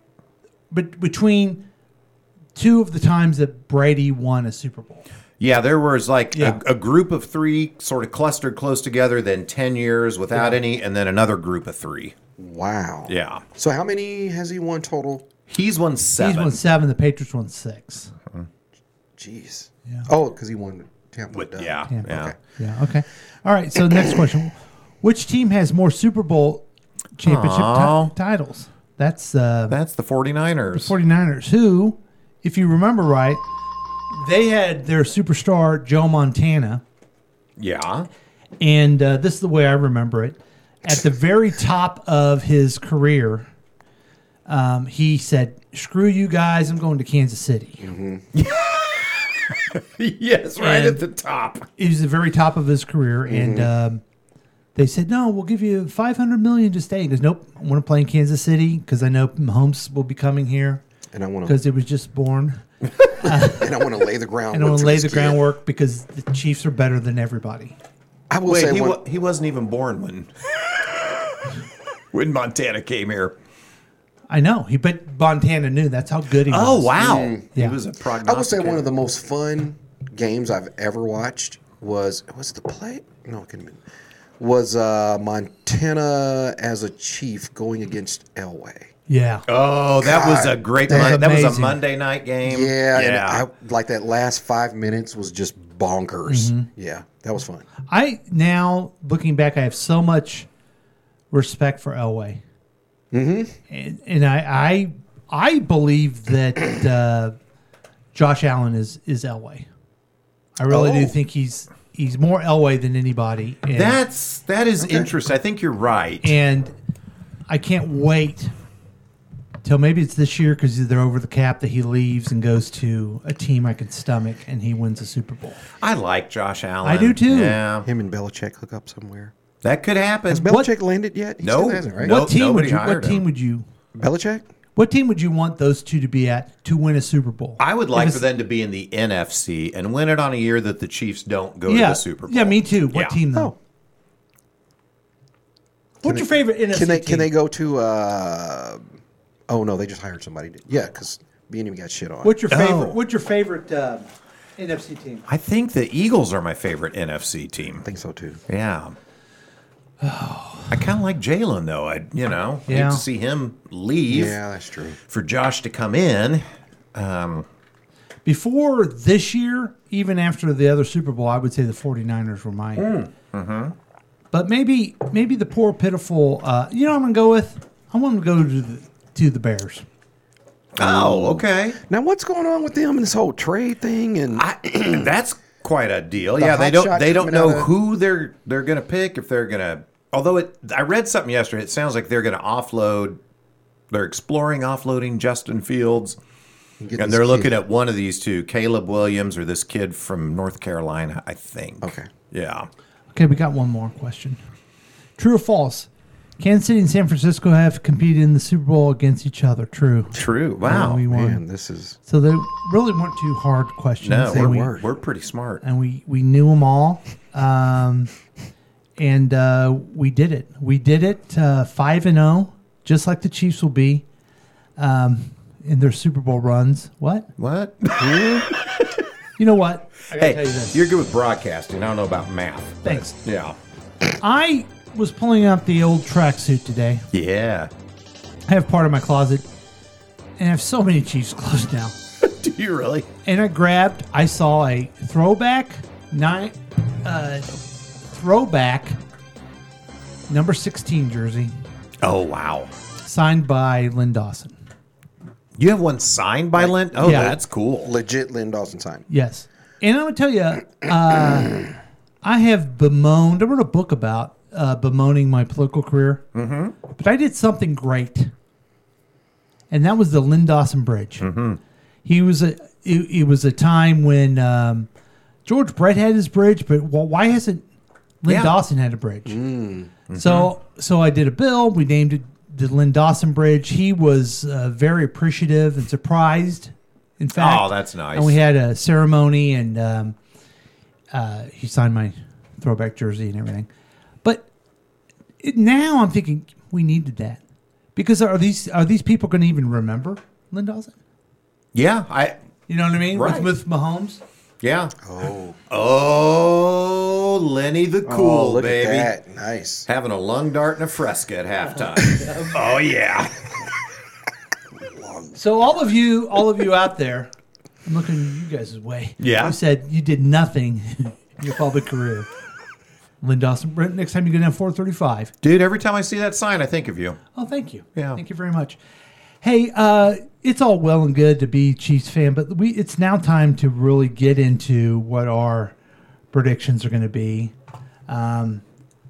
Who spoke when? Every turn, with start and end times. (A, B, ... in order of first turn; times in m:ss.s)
0:00.7-0:01.6 A
0:02.5-0:05.0 A
0:05.4-0:12.1 B
0:06.3-0:06.6 A
0:10.3-0:10.6 A
0:12.4-0:15.3 C
0:13.1-0:13.4 B
0:15.5-0:16.5 B
0:16.2-0:18.1 A
0:19.2-0:22.4 C
0:21.3-0:22.3 B
0:21.9-0:26.6 A
0:27.2-0:29.8 A
0:27.2-0:28.1 B
0:29.7-0:30.9 B
0:30.7-0:33.4 A
0:34.1-0:36.8 A
0:37.6-0:38.1 B
0:38.6-0:43.5 A
0:44.4-0:47.9 A
0:47.8-0:48.2 C
0:48.3-0:51.6 B
0:50.6-0:51.0 A
0:51.8-0:54.0 A
0:53.3-0:53.7 C
0:54.7-1:00.8 A
1:01.1-1:01.6 C
1:01.4-1:03.7 A
1:03.2-1:05.4 C
1:04.5-1:07.7 A
1:08.3-1:09.0 C
1:08.4-1:11.3 B
1:12.1-1:13.3 B
1:14.3-1:17.0 A
1:16.5-1:18.9 B
1:17.0-1:17.5 C
1:18.2-1:23.8 C
1:24.4-1:28.9 C
1:29.1-1:29.4 A
1:29.5-1:33.4 B
1:30.0-1:31.2 C
1:30.9-1:31.8 A
1:32.4-1:37.7 C
1:36.3-1:36.7 A
1:37.9-1:40.5 A
1:41.3-1:42.4 A
1:43.1-1:43.6 C
1:43.7-1:47.4 A
1:48.1-1:49.7 A
1:50.6-1:54.0 A
1:50.7-1:51.2 C
1:53.7-1:56.3 B
1:54.8-1:55.1 C
1:56.2-1:56.7 A
1:57.5-1:58.5 A
1:59.6-2:05.6 A
2:05.8-2:07.9 B
2:06.8-2:07.6 A
2:07.8-2:09.3 C
2:09.6-2:10.5 B
2:10.3-2:12.2 C
2:11.4-2:13.2 B
2:12.0-2:13.6 A
2:13.9-2:14.4 C
2:14.8-2:18.2 A
2:17.6-2:23.1 B
2:21.7-2:23.5 A
2:26.0-2:27.3 A
2:26.0-2:28.9 C
2:29.5-2:32.4 C
2:32.2-2:35.2 A
2:32.5-2:33.0 B
2:35.3-2:37.8 B
2:37.8-2:38.4 C
2:38.5-2:39.0 B
2:40.0-2:40.7 A
2:40.7-2:44.4 B
2:42.7-2:43.0 A
2:44.1-2:45.0 C
2:45.1-2:46.4 B
2:46.9-2:47.4 B
2:48.2-2:52.9 A
2:52.8-2:53.7 B
2:54.3-2:59.8 A
3:00.8-3:01.8 B
3:00.8-3:05.1 C
3:04.4-3:13.2 B
3:06.4-3:07.7 C
3:13.9-3:16.2 B
3:16.8-3:17.5 C
3:17.0-3:22.7 B
3:21.8-3:22.1 C
3:23.1-3:24.4 A
3:25.2-3:25.9 A
3:26.4-3:31.4 A
3:30.1-3:31.0 B
3:30.7-3:32.0 C
3:32.0-3:34.7 A
3:34.0-3:35.6 B
3:34.3-3:34.8 C
3:35.6-3:38.1 A
3:39.0-3:44.0 A
3:44.8-3:47.3 A
3:47.4-3:49.0 B
3:49.4-3:50.7 A
3:50.1-3:53.6 B
3:52.8-3:53.1 A
3:54.2-3:57.0 A
3:57.1-3:57.7 B
3:58.5-3:59.4 A
4:00.4-4:01.9 A
4:02.2-4:03.1 B
4:03.2-4:07.6 A
4:08.1-4:09.0 A
4:10.3-4:11.5 A
4:12.0-4:12.7 B
4:13.0-4:14.6 A
4:15.6-4:17.9 B
4:16.6-4:17.2 C
4:17.0-4:17.4 A
4:17.8-4:19.1 C
4:19.1-4:21.6 A
4:22.2-4:26.2 A
4:26.3-4:26.7 B
4:27.0-4:28.3 A
4:29.7-4:31.2 A
4:31.2-4:31.6 B
4:32.0-4:34.9 A
4:35.4-4:37.6 A
4:38.2-4:39.4 A
4:38.3-4:38.5 B
4:39.2-4:39.9 C
4:40.1-4:40.5 B
4:40.1-4:50.2 A
4:47.4-4:48.4 B
4:51.1-4:53.7 A
4:55.4-4:57.4 A
4:58.0-5:00.9 A
5:01.7-5:02.4 B
5:02.7-5:04.2 A
5:03.1-5:03.5 B
5:04.6-5:04.9 B
5:05.0-5:05.6 C
5:05.7-5:09.1 B
5:08.0-5:09.9 C
5:09.9-5:13.5 B
5:12.2-5:12.5 A
5:14.8-5:15.4 C
5:15.3-5:17.3 A
5:17.8-5:22.3 A
5:19.2-5:19.6 B
5:23.2-5:25.3 A
5:25.4-5:27.2 B
5:27.3-5:28.8 A
5:29.4-5:35.7 A
5:36.3-5:37.5 A
5:38.1-5:38.6 A